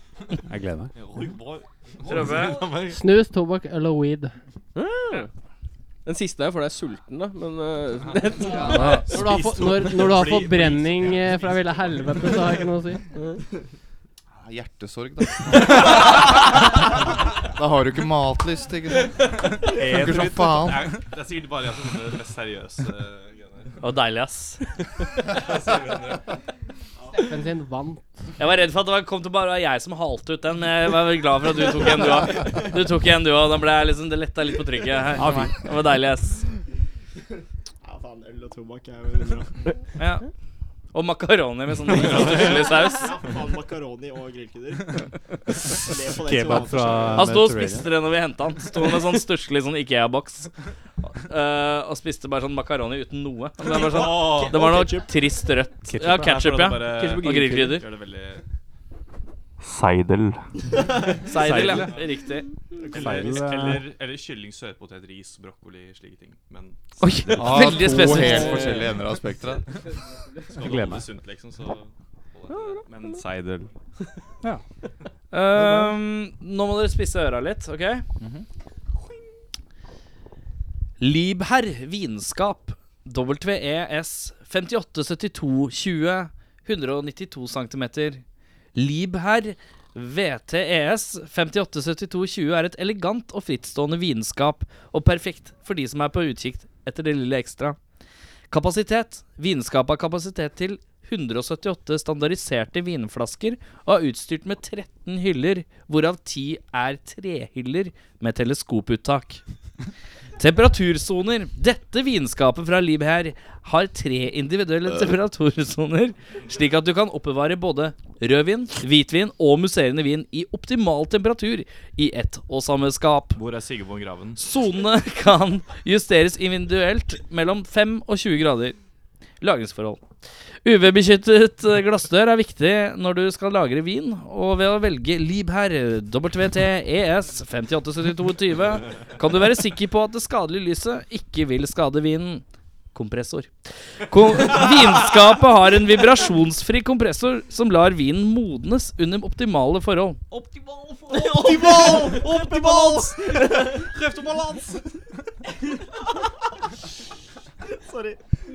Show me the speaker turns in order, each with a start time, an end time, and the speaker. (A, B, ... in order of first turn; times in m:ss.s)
0:00.4-0:00.9 A
0:00.9-0:03.0 B
0:02.0-0:02.6 C
0:02.9-0:04.4 D
0:04.7-0:05.3 E
0:06.0-0:08.8 E
0:08.0-0:12.6 B
0:08.4-0:13.1 D
0:08.7-0:09.0 A
0:13.2-0:13.4 E
0:14.4-0:16.7 F
0:17.5-0:19.2 F
0:19.6-0:23.8 B
0:19.8-0:20.9 F
0:23.8-0:24.6 C
0:25.4-0:26.2 B
0:27.1-0:28.2 D
0:28.4-0:36.5 C
0:35.2-0:35.6 A
0:37.8-0:39.6 G
0:40.0-0:40.3 C
0:40.9-0:43.1 C
0:42.1-0:45.1 G
0:42.2-0:42.5 B
0:45.7-0:47.3 G
0:46.1-0:47.9 A
0:47.2-0:50.5 C
0:51.0-0:57.8 C
0:53.7-0:55.2 G
0:53.7-0:54.6 B
0:55.9-0:56.3 A
0:56.0-0:58.4 B
0:57.0-0:57.8 E
0:59.7-1:00.3 F
1:01.3-1:02.5 C
1:01.4-1:01.9 B
1:02.8-1:07.8 B
1:02.9-1:03.3 G
1:02.9-1:03.8 A
1:07.0-1:08.8 C
1:07.3-1:09.7 F
1:10.5-1:13.7 B
1:10.6-1:11.1 A
1:12.6-1:12.8 E
1:15.3-1:18.0 C
1:21.0-1:28.2 C
1:28.7-1:37.8 C
1:38.5-1:49.4 C
1:50.4-2:03.4 C
2:03.3-2:04.4 B
2:04.4-2:08.8 C
2:09.4-2:10.0 C
2:10.6-2:23.5 C
2:24.1-2:30.2 C
2:30.3-2:34.7 B
2:31.1-2:34.6 G
2:37.7-2:38.2 G